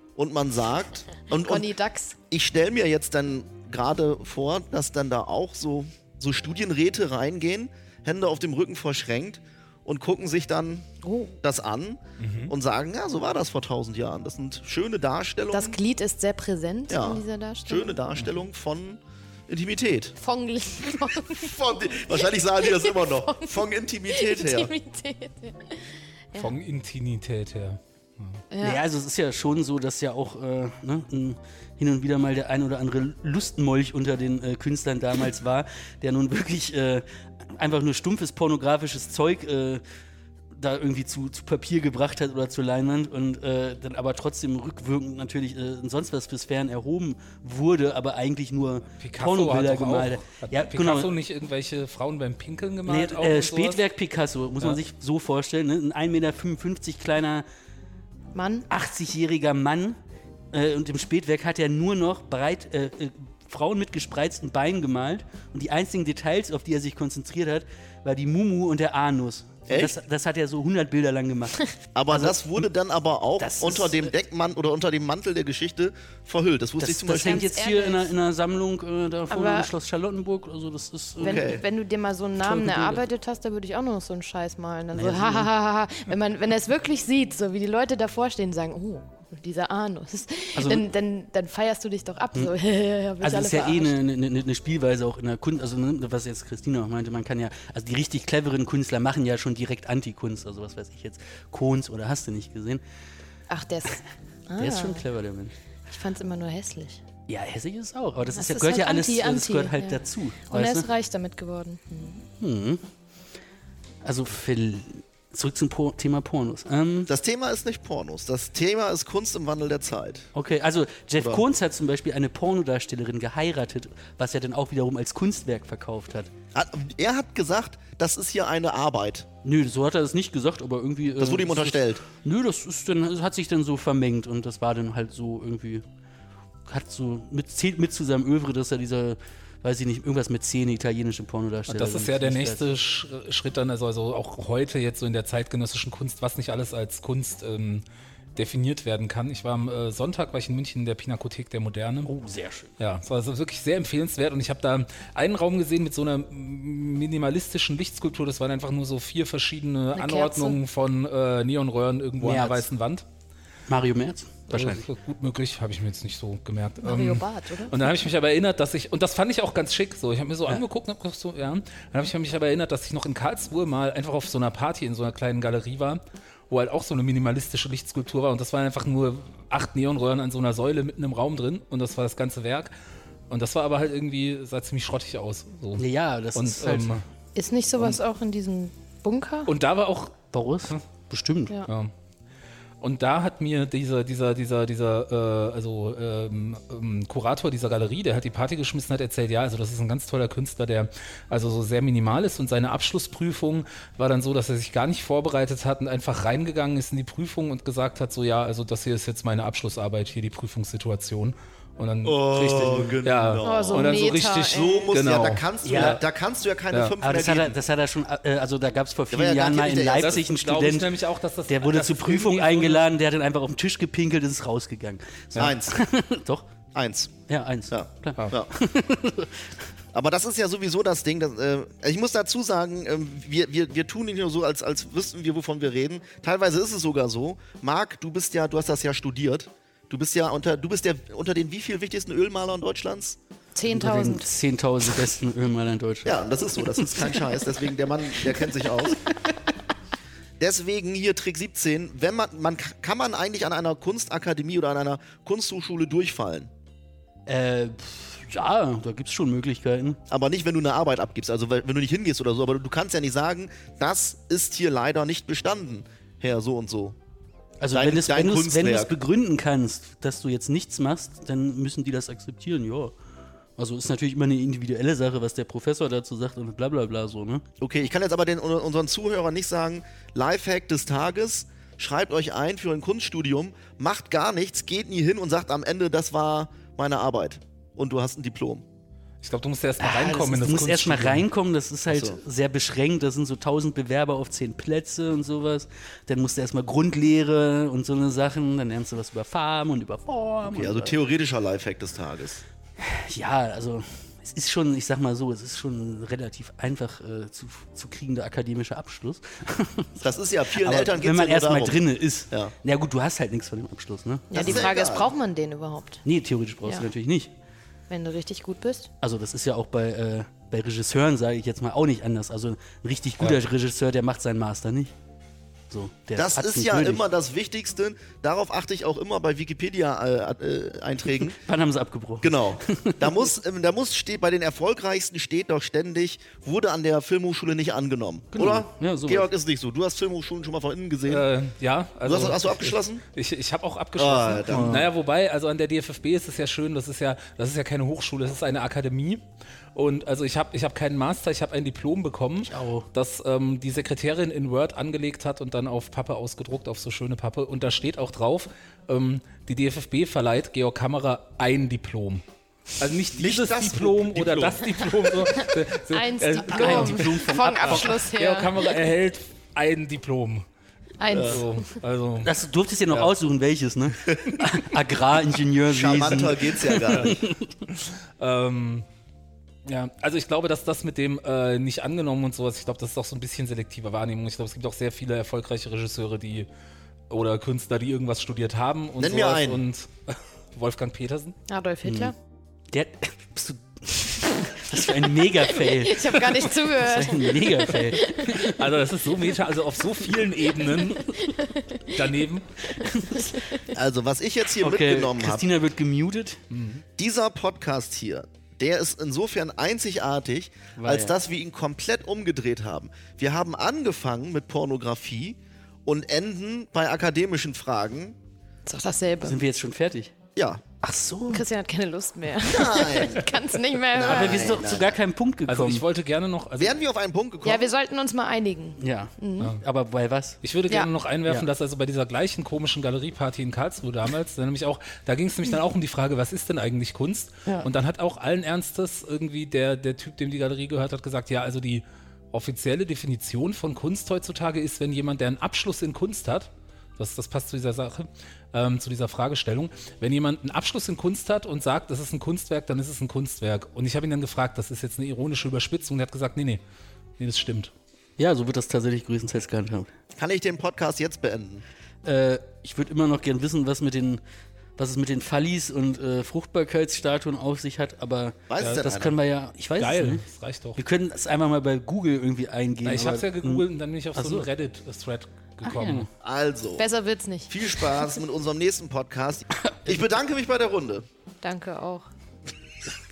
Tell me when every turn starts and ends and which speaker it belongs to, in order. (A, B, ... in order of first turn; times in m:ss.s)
0:00.2-0:01.7 A
0:01.4-0:02.2 B
0:02.3-0:10.9 A
0:11.0-0:11.3 B
0:11.4-0:15.8 A
0:12.2-0:12.5 C
0:15.5-0:18.0 B
0:16.9-0:20.1 A
0:18.2-0:18.4 C
0:20.2-0:21.5 B
0:21.4-0:24.7 A
0:22.1-0:23.5 B
0:24.1-0:26.5 B
0:26.4-0:28.4 C
0:28.5-0:28.8 B
0:28.6-0:39.8 D
0:40.5-0:51.2 D
0:49.0-0:53.8 C
0:52.8-0:57.4 D
0:58.3-0:58.7 B
0:58.7-1:00.0 D
1:00.5-1:12.7 D
1:09.7-1:09.9 A
1:12.0-1:17.4 A
1:13.4-1:14.2 D
1:16.8-1:21.6 D
1:17.2-1:18.1 B
1:19.3-1:19.7 B
1:21.2-1:34.0 B
1:21.2-1:21.6 A
1:22.4-1:23.0 D
1:24.9-1:25.5 D
1:30.6-1:30.9 D
1:33.2-1:42.8 D
1:43.5-1:45.0 B
1:44.6-1:45.5 D
1:45.9-1:47.0 B
1:47.3-1:50.9 D
1:48.3-1:52.2 B
1:52.4-1:52.8 D
1:54.0-1:57.1 D
1:57.1-2:00.3 A
2:00.3-2:06.3 D
2:01.2-2:01.4 A
2:06.5-2:09.3 A
2:09.4-2:15.8 D
2:11.2-2:12.0 A
2:16.7-2:22.6 D
2:21.7-2:27.8 C
2:28.3-2:32.1 C
2:32.0-2:32.7 D
2:32.8-2:43.0 C
2:39.9-2:40.6 B
2:42.2-2:42.7 D
2:43.7-2:44.8 D
2:44.5-3:02.7 C
2:46.8-2:47.8 B
3:03.3-3:07.0 C
3:05.8-3:07.0 D
3:07.3-3:09.5 B
3:09.4-3:10.2 C
3:10.3-3:11.6 D
3:11.6-3:11.9 C
3:12.8-3:36.0 C
3:32.0-3:37.6 A
3:32.6-3:33.0 D
3:33.4-3:34.8 B
3:35.6-3:36.0 D
3:36.7-3:37.0 C
3:37.0-3:40.9 D
3:39.1-3:40.2 A
3:40.0-3:42.9 C
3:41.5-3:46.5 D
3:45.4-3:45.8 A
3:46.7-3:47.1 A
3:47.3-3:49.5 D
3:47.7-3:48.5 A
3:49.9-4:03.2 A
4:03.5-4:04.3 B
4:03.7-4:07.6 D
4:06.0-4:09.0 A
4:10.4-4:16.5 A
4:17.3-4:20.0 D
4:20.1-4:27.0 A
4:27.6-4:32.9 D
4:27.7-4:29.0 A
4:33.6-4:37.4 D
4:37.6-4:48.6 A
4:49.2-4:51.2 C
4:49.8-5:01.0 D
4:51.9-4:52.2 A
5:00.4-5:02.4 A
5:02.8-5:14.7 D
5:10.0-5:12.5 A
5:14.3-5:16.0 B
5:14.3-5:15.1 A
5:16.0-5:17.3 D
5:17.9-5:18.9 B
5:19.0-5:24.9 D
5:25.7-5:27.0 D
5:26.2-5:31.4 A
5:31.2-5:33.3 D
5:32.2-5:41.3 A
5:38.3-5:39.3 D
5:41.1-5:42.5 C
5:42.0-5:43.0 A
5:43.1-5:49.2 C
5:44.0-5:44.9 A
5:44.5-5:44.9 D
5:49.7-6:02.2 C
5:52.4-5:52.9 D
6:02.8-6:10.4 C
6:03.1-6:04.6 A
6:05.2-6:08.7 B
6:06.4-6:07.9 D
6:11.0-6:11.6 B
6:11.1-6:11.4 A
6:11.2-6:12.3 C
6:12.2-6:17.4 D
6:12.9-6:13.1 C
6:15.7-6:17.2 A
6:16.8-6:18.8 C
6:19.6-6:26.5 C
6:27.1-6:31.4 C
6:29.0-6:29.6 A
6:31.5-6:32.1 B
6:31.8-6:32.1 D
6:32.7-6:38.3 D
6:35.4-6:38.4 B
6:38.3-6:41.1 C
6:40.9-6:42.0 B
6:41.9-6:42.5 C
6:42.7-6:43.5 D
6:43.0-6:43.6 B
6:43.7-6:45.5 A
6:44.6-6:46.4 D
6:46.5-6:46.8 C
6:47.0-6:58.2 A
6:50.8-6:51.2 D
6:58.6-6:59.4 B
6:59.2-7:00.1 D
7:00.4-7:00.6 A
7:00.8-7:01.4 D
7:01.3-7:04.5 B
7:02.5-7:03.2 A
7:03.9-7:05.0 A
7:04.0-7:05.8 D
7:05.5-7:06.8 C
7:06.6-7:07.7 A
7:07.4-7:09.5 B
7:08.8-7:10.4 D
7:10.4-7:36.6 C
7:37.2-7:37.7 C
7:38.2-7:39.9 D
7:40.2-7:41.6 A
7:42.0-7:44.2 D
7:44.8-7:50.2 D
7:48.5-7:49.2 A
7:48.6-7:48.8 C
7:49.8-7:50.8 C
7:50.7-7:54.5 D
7:52.8-7:56.1 C
7:55.6-7:56.1 D
7:56.2-7:56.8 A
7:56.8-7:57.9 B
7:57.5-8:01.0 A
8:01.4-8:02.0 B